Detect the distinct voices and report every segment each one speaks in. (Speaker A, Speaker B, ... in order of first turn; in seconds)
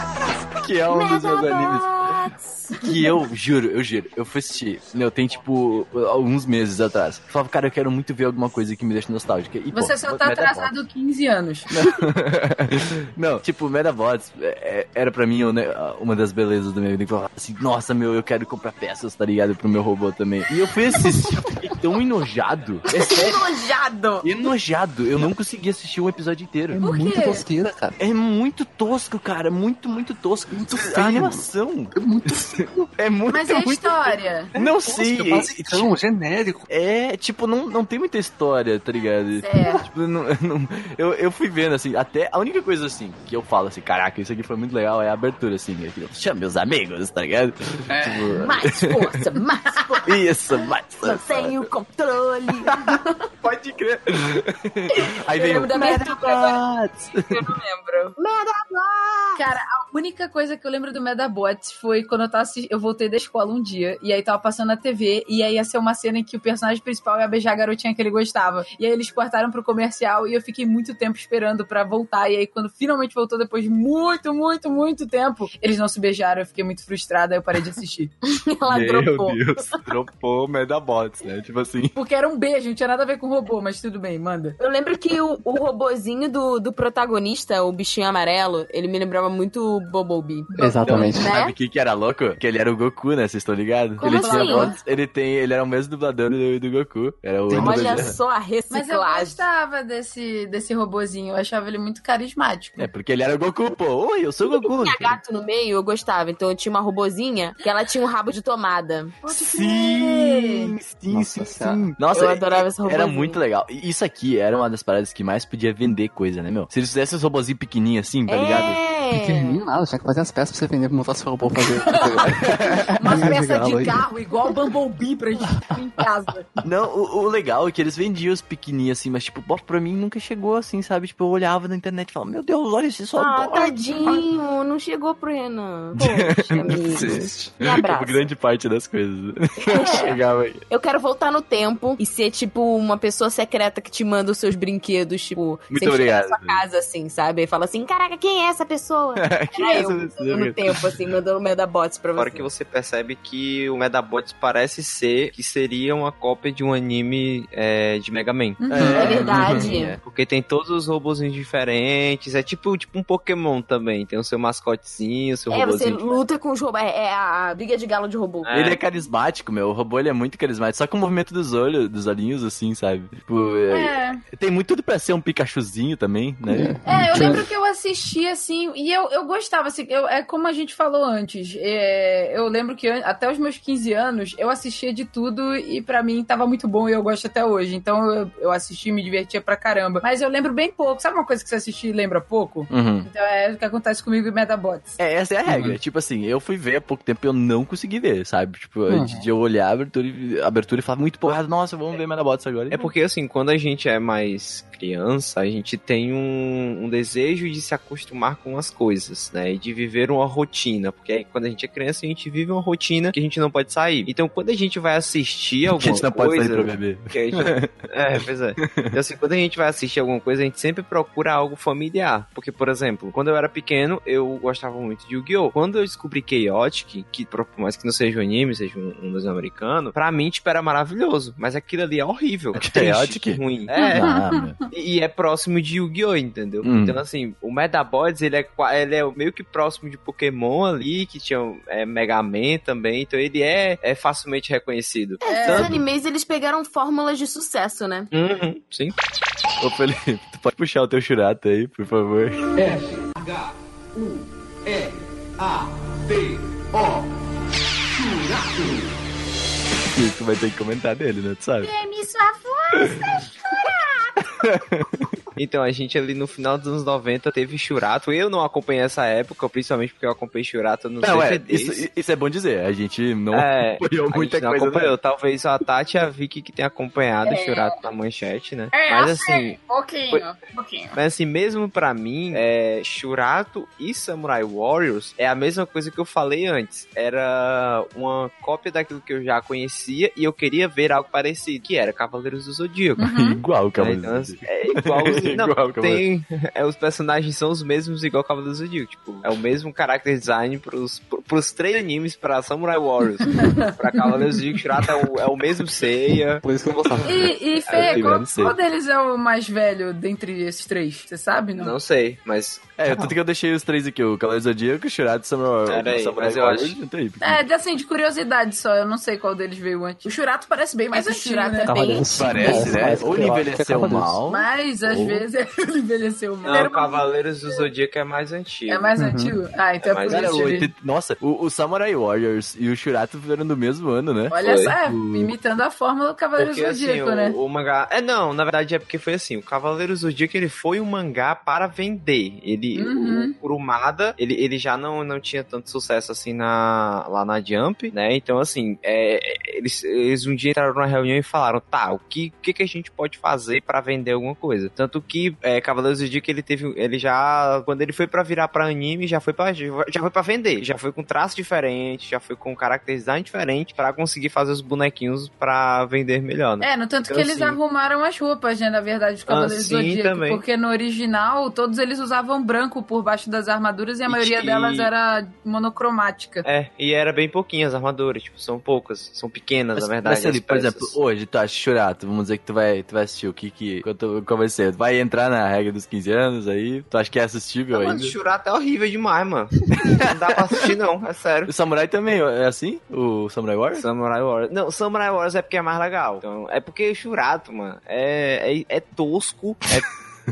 Speaker A: 0.6-2.2, 2.8-10.7, 11.7-23.4, 24.2-26.8, 28.0-36.0, 36.7-49.2, 50.0-51.6, 52.6-57.4, 78.7-82.0, 90.8-98.1, 102.8-105.2, 109.3-118.8, 122.4-123.2, 126.6-133.7, 135.9-140.6, 145.7-146.6, 149.2-150.8, 158.7-160.0, 168.5-177.3, 192.7-193.1, 195.0-202.8, 215.7-218.9, 232.6-234.6, 236.6-237.0, 249.6-252.5, 259.9-261.7, 262.7-263.1, 264.2-265.1, 271.0-274.9, 293.0-296.0, 307.7-308.6, 312.8-317.4, 322.1-325.2, 330.1-335.3, 379.7-388.1, 389.7-390.7, 391.5-393.8
Speaker B: 0.9-2.0, 22.9-24.3, 48.3-50.1, 51.0-53.3, 54.9-56.6, 57.1-59.5, 78.3-79.8, 84.6-91.5, 94.0-94.7, 97.5-99.4, 104.6-110.7, 112.1-113.4, 118.3-119.6, 133.2-138.2, 139.6-152.5, 158.9-159.9, 165.5-168.5, 245.2-248.1, 320.9-322.9
Speaker C: 2.7-3.1, 9.7-12.0, 26.8-27.4, 33.3-34.5, 39.4-39.8, 59.4-78.1, 81.9-84.5, 90.5-90.9, 94.0-94.8, 98.7-102.9, 121.6-122.2, 122.9-126.5, 158.6-159.7, 173.7-174.2, 176.8-195.0, 233.7-234.7, 245.2-245.7, 277.2-277.8, 278.7-281.0, 293.0-293.4, 303.2-304.3, 307.0-311.7, 317.2-322.7, 324.3-327.6, 328.7-330.7, 334.3-337.4, 342.7-343.4, 366.6-376.4
Speaker D: 26.7-27.9, 30.5-31.4, 31.9-32.6, 34.6-36.6, 47.9-48.4, 90.5-91.3, 97.5-98.1, 111.1-111.8, 119.1-124.0, 136.9-137.5, 176.5-177.4, 195.5-195.8, 198.9-199.2, 306.4-307.3, 312.9-313.1, 321.6-324.2, 329.0-329.3
Speaker E: 152.2-158.6, 160.0-166.2, 168.4-168.8, 202.7-234.0, 234.7-245.8, 248.1-248.9, 265.4-271.8, 273.3-279.6, 280.9-293.1, 293.8-306.4, 307.6-308.2, 311.6-312.7, 315.7-316.7, 326.4-328.9, 329.8-330.5, 334.4-334.8, 336.4-367.6, 369.3-370.4, 374.1-374.9, 376.4-380.9, 387.7-391.5, 393.8-399.9
Speaker F: 261.6-264.1